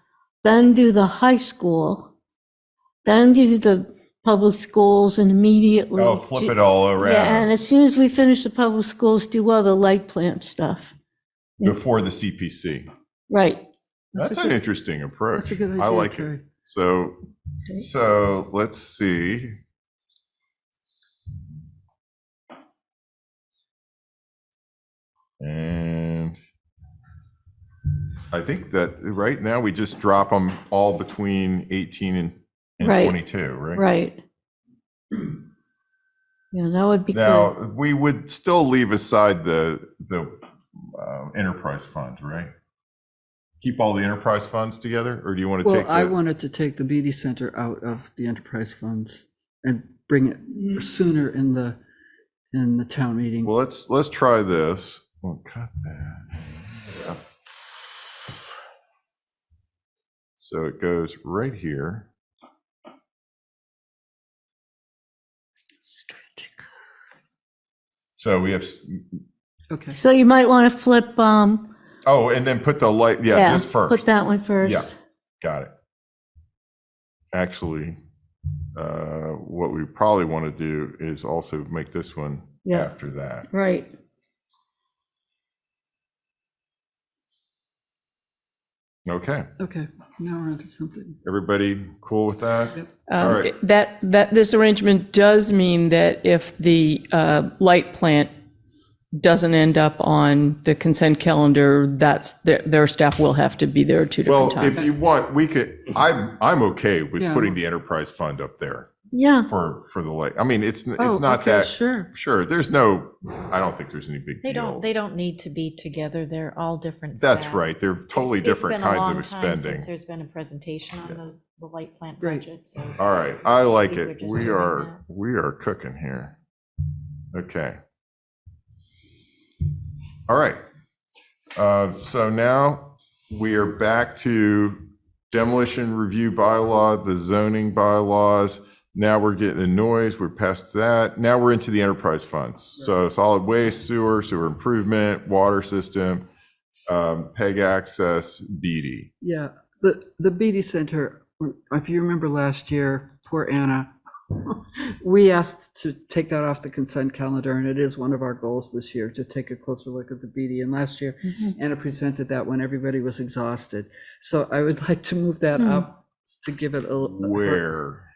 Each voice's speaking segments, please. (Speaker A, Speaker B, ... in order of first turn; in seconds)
Speaker A: 0.4-2.1, 3.0-10.9, 13.3-13.7, 32.8-33.1, 33.7-34.2, 36.5-37.5, 69.9-71.7, 73.3-74.9, 82.7-82.9, 83.5-83.9, 109.1-109.5, 165.6-165.8
Speaker B: 6.0-7.5, 11.6-12.9, 14.1-17.2, 17.8-19.6, 25.4-26.4, 28.3-33.8, 37.1-42.5, 43.6-46.2, 53.4-57.2, 60.4-62.0, 68.2-69.2, 72.0-74.0, 74.6-74.9, 75.4-75.7, 77.3-78.0, 78.8-83.5, 89.0-89.5, 91.2-93.5, 104.2-108.9, 109.5-114.9, 117.2-119.9, 123.0-126.3, 127.3-127.8, 130.3-130.6, 131.6-134.8, 135.3-146.2, 146.9-149.1, 167.2-168.0
Speaker C: 14.1-14.6, 15.3-16.4, 45.6-51.8, 52.5-53.5, 65.9-66.5, 69.7-70.0, 89.6-91.2, 107.2-107.6, 111.0-112.1, 122.2-122.5, 149.2-167.7
Speaker D: 93.1-98.3, 99.1-104.9
Speaker E: 114.4-123.0, 123.7-125.0